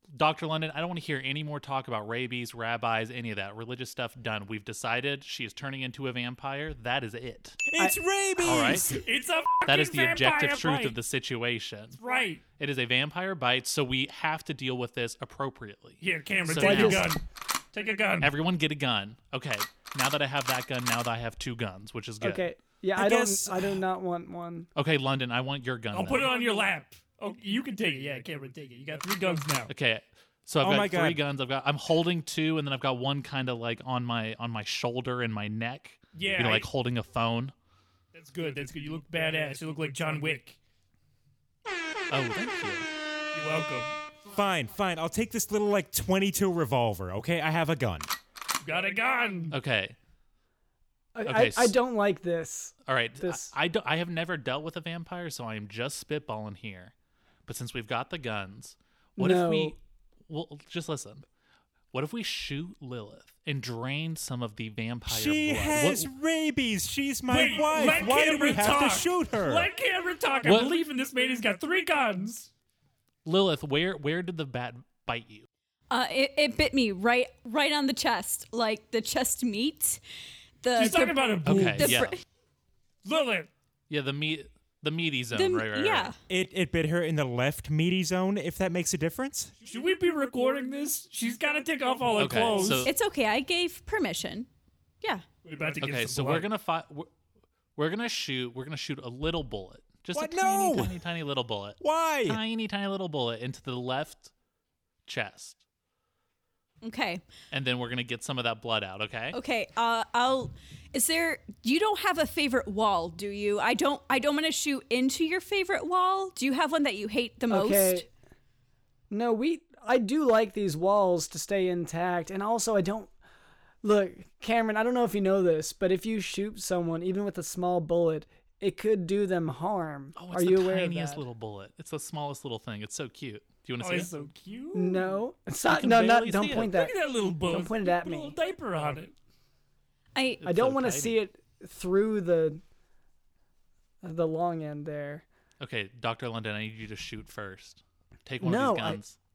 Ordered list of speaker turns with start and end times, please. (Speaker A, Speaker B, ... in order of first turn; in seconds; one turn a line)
Speaker A: 0.1-7.6
Speaker B: 7.7-9.0
Speaker A: 8.4-9.0
Speaker C: 8.9-11.0
Speaker A: 9.7-12.0
Speaker C: 12.0-12.4
Speaker A: 12.6-17.1
Speaker C: 16.0-18.3
Speaker D: 16.6-17.1
Speaker A: 18.2-22.5
Speaker D: 22.2-24.7
Speaker B: 23.0-23.8
Speaker A: 24.8-26.3
Speaker C: 25.9-29.7
Speaker A: 29.7-37.5
Speaker B: 30.6-31.2
Speaker C: 36.1-36.7
Speaker C: 38.1-40.6
Speaker A: 42.1-42.9
Speaker C: 43.3-43.9
Speaker B: 44.3-48.1
Speaker C: 48.6-49.5
Speaker A: 49.5-50.0
Speaker D: 51.1-53.5
Speaker A: 51.3-51.8
Speaker A: 52.9-56.9
Speaker A: 57.5-61.2
Speaker D: 59.2-59.8
Speaker A: 61.9-66.1
Speaker B: 65.1-69.7
Speaker C: 67.3-72.5
Speaker A: 70.5-70.7
Speaker A: 73.2-75.5
Speaker E: 75.9-80.0
Speaker E: 80.6-82.2
Speaker C: 80.8-82.1
Speaker A: 81.5-82.2
Speaker C: 83.0-83.5
Speaker A: 83.9-86.1
Speaker E: 85.3-86.2
Speaker B: 86.3-89.5
Speaker C: 89.6-92.9
Speaker A: 92.2-92.9
Speaker E: 92.8-94.5
Speaker C: 95.4-96.5
Speaker A: 95.8-97.1
Speaker A: 97.8-104.3
Speaker B: 100.1-101.0
Speaker B: 101.8-102.4
Speaker A: 105.1-105.6
Speaker E: 106.8-107.3
Speaker A: 107.5-109.4
Speaker E: 109.3-118.1
Speaker D: 117.5-118.1
Speaker D: 119.1-123.1
Speaker D: 123.8-131.2
Speaker A: 130.2-134.1
Speaker C: 133.8-135.1
Speaker D: 134.7-136.9
Speaker A: 135.7-136.7
Speaker C: 136.6-139.1
Speaker D: 137.5-138.4
Speaker E: 140.2-140.4
Speaker A: 140.4-141.2
Speaker D: 140.4-142.6
Speaker D: 144.0-145.2
Speaker A: 145.6-149.2
Speaker D: 148.4-149.0